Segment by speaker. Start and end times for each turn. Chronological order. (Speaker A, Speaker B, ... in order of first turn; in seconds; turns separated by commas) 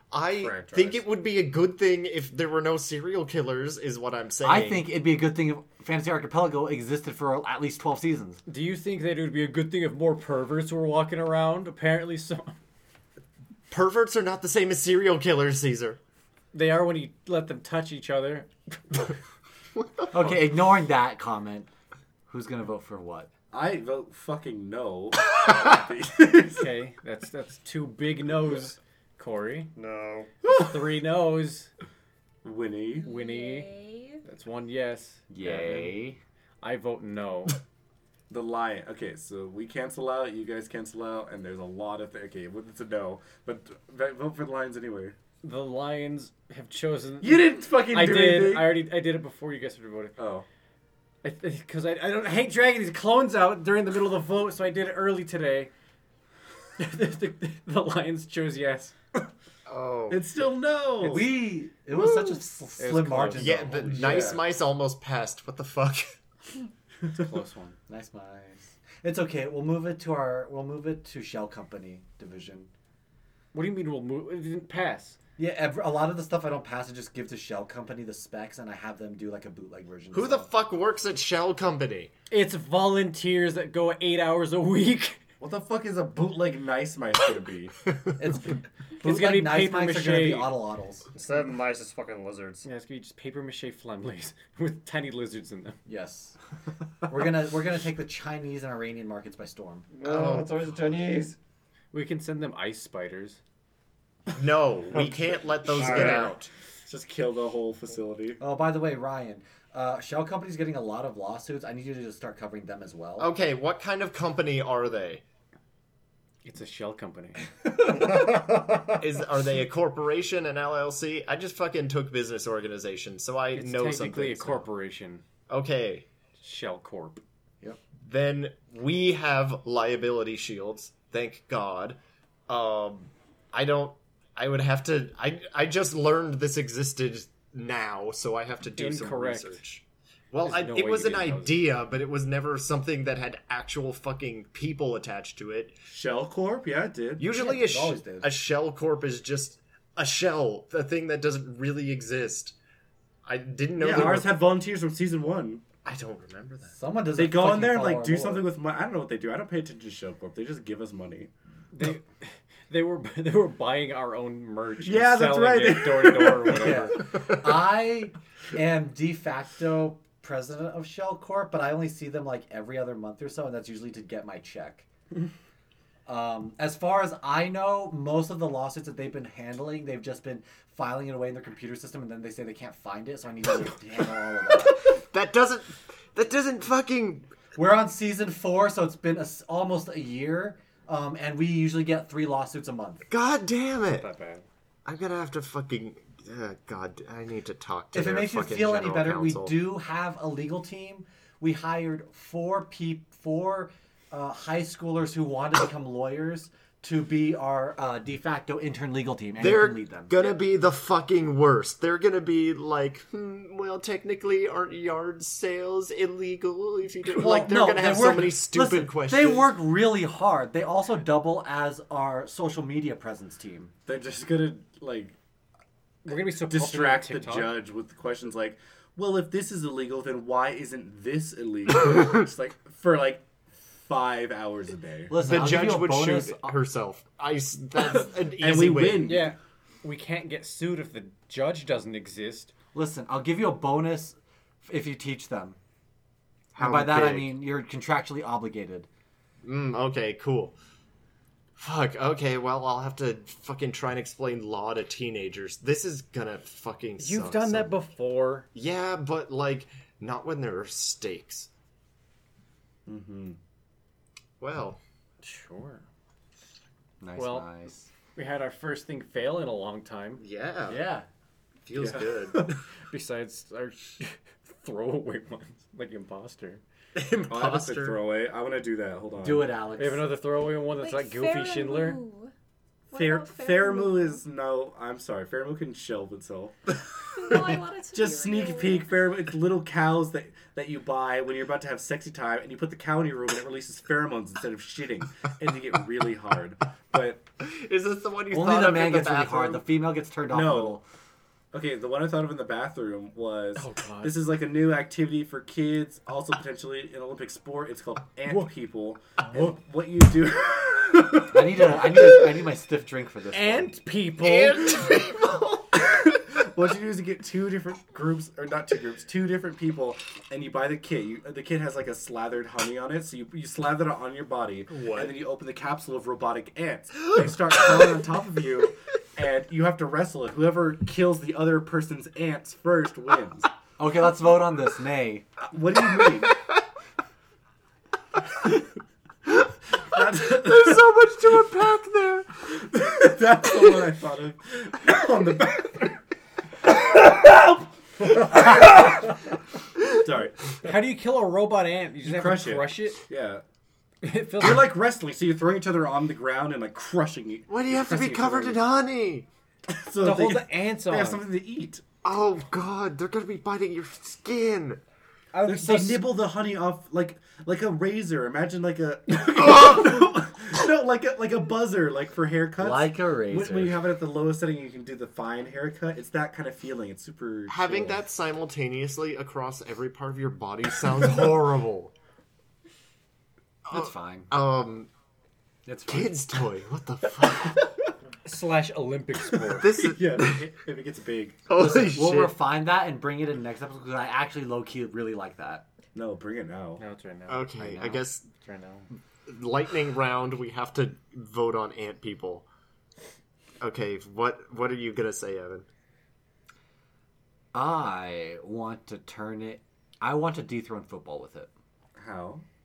Speaker A: 0.1-4.9, Speaker B: 0.4-1.1, Speaker C: 4.4-8.4, Speaker D: 8.5-12.6, Speaker A: 13.7-16.0, Speaker D: 16.5-19.1, Speaker A: 19.8-20.1, Speaker C: 20.1-21.7, Speaker C: 22.3-23.3, Speaker E: 23.5-26.7, Speaker D: 26.6-29.7, Speaker B: 29.8-30.3, Speaker D: 30.5-31.7, Speaker E: 32.4-33.1, Speaker F: 33.0-34.2, Speaker D: 33.0-33.7, Speaker D: 34.2-36.0, Speaker C: 35.3-36.2, Speaker D: 36.6-37.6, Speaker E: 38.3-45.2, Speaker D: 45.4-50.2, Speaker E: 47.2-48.8, Speaker E: 50.2-50.5, Speaker D: 51.2-55.7, Speaker D: 56.8-58.9, Speaker A: 59.7-60.3, Speaker E: 60.1-61.4, Speaker C: 61.0-64.3, Speaker D: 62.8-63.6, Speaker A: 63.4-66.2, Speaker E: 63.9-64.5, Speaker D: 67.1-67.8, Speaker C: 67.9-72.7, Speaker D: 73.5-75.2, Speaker C: 75.4-80.5, Speaker A: 80.1-82.1, Speaker D: 82.3-85.2, Speaker E: 85.4-87.8, Speaker C: 88.2-91.1, Speaker D: 89.0-90.5, Speaker B: 91.2-92.7, Speaker D: 92.6-95.8, Speaker C: 95.9-96.4, Speaker C: 97.1-99.9, Speaker B: 99.9-101.4, Speaker A: 100.0-100.6, Speaker D: 101.9-103.4, Speaker A: 104.3-106.5, Speaker B: 105.8-106.3, Speaker E: 105.8-106.3, Speaker E: 106.9-108.4, Speaker C: 108.4-113.3, Speaker A: 113.2-115.2, Speaker D: 116.4-117.4, Speaker B: 117.9-118.8, Speaker A: 119.0-124.7, Speaker D: 123.5-125.2, Speaker A: 125.5-126.1, Speaker D: 126.4-127.2, Speaker A: 128.0-145.8, Speaker D: 138.8-139.6, Speaker D: 140.4-141.7, Speaker E: 145.9-147.3, Speaker A: 147.2-152.6, Speaker C: 147.3-148.3, Speaker A: 153.2-154.4, Speaker E: 153.8-155.7, Speaker A: 155.8-156.8, Speaker C: 156.7-158.5, Speaker E: 157.2-161.3, Speaker D: 161.7-167.1, Speaker E: 164.8-166.9, Speaker C: 166.6-174.9, Speaker A: 167.1-167.4, Speaker C: 176.1-184.9, Speaker A: 184.8-187.3, Speaker C: 187.6-193.1, Speaker A: 193.1-194.1, Speaker D: 194.0-194.4, Speaker A: 194.8-199.6, Speaker C: 197.9-210.2, Speaker A: 209.4-219.5, Speaker C: 217.2-223.7, Speaker E: 217.2-217.5, Speaker E: 223.9-225.2, Speaker D: 226.1-227.6, Speaker E: 226.2-233.2, Speaker E: 233.9-235.2, Speaker C: 235.1-236.6, Speaker A: 235.2-239.2, Speaker E: 238.3-239.3, Speaker D: 239.1-242.5, Speaker C: 242.7-245.6, Speaker A: 246.5-247.4, Speaker C: 246.6-248.9, Speaker A: 249.4-250.6, Speaker A: 251.6-257.8, Speaker D: 257.0-258.5, Speaker A: 258.6-261.5, Speaker E: 262.9-263.4, Speaker A: 264.4-264.8, Speaker D: 265.2-265.9, Speaker C: 267.0-267.9, Speaker D: 267.2-267.5, Speaker D: 268.1-270.2, Speaker A: 270.2-270.8, Speaker C: 270.7-271.1, Speaker A: 271.7-272.6, Speaker E: 271.8-272.5, Speaker D: 272.9-276.6, Speaker A: 276.9-278.0, Speaker E: 277.3-279.6, Speaker C: 279.2-280.1, Speaker D: 279.8-282.0, Speaker F: 280.8-282.3, Speaker F: 282.9-284.2, Speaker E: 282.9-297.3, Speaker F: 287.1-289.0, Speaker A: 297.4-299.6, Speaker C: 298.3-300.9, Speaker E: 300.3-300.8, Speaker E: 301.5-312.1, Speaker D: 303.6-304.2, Speaker D: 309.3-309.5, Speaker C: 311.3-313.8, Speaker D: 313.3-314.9, Speaker A: 314.2-315.6, Speaker E: 315.7-333.5, Speaker A: 324.7-325.2, Speaker C: 333.8-335.3, Speaker E: 335.5-336.4, Speaker E: 339.9-340.9, Speaker A: 339.9-342.4, Speaker E: 342.5-346.0, Speaker E: 347.1-349.0, Speaker E: 350.0-350.7, Speaker D: 350.6-353.0, Speaker E: 352.0-353.4, Speaker D: 354.0-354.8, Speaker E: 354.4-358.6, Speaker A: 357.5-359.3, Speaker E: 359.7-361.8, Speaker D: 360.0-361.2, Speaker A: 362.0-364.8, Speaker D: 365.4-366.0, Speaker E: 365.4-378.1, Speaker C: 365.6-366.0, Speaker C: 372.6-373.8, Speaker A: 377.5-381.9, Speaker A: 383.7-384.9, Speaker C: 383.7-384.3, Speaker C: 385.7-386.2, Speaker A: 385.9-387.6, Speaker D: 388.2-389.8, Speaker A: 389.6-390.5, Speaker E: 389.8-391.4, Speaker A: 391.5-392.3, Speaker C: 391.6-395.6, Speaker E: 395.9-396.8, Speaker D: 396.8-397.8, Speaker A: 397.3-398.2, Speaker C: 397.6-398.1, Speaker D: 398.3-398.9, Speaker A: 399.3-402.5, Speaker A: 403.6-405.7, Speaker C: 407.5-411.5, Speaker E: 412.0-412.4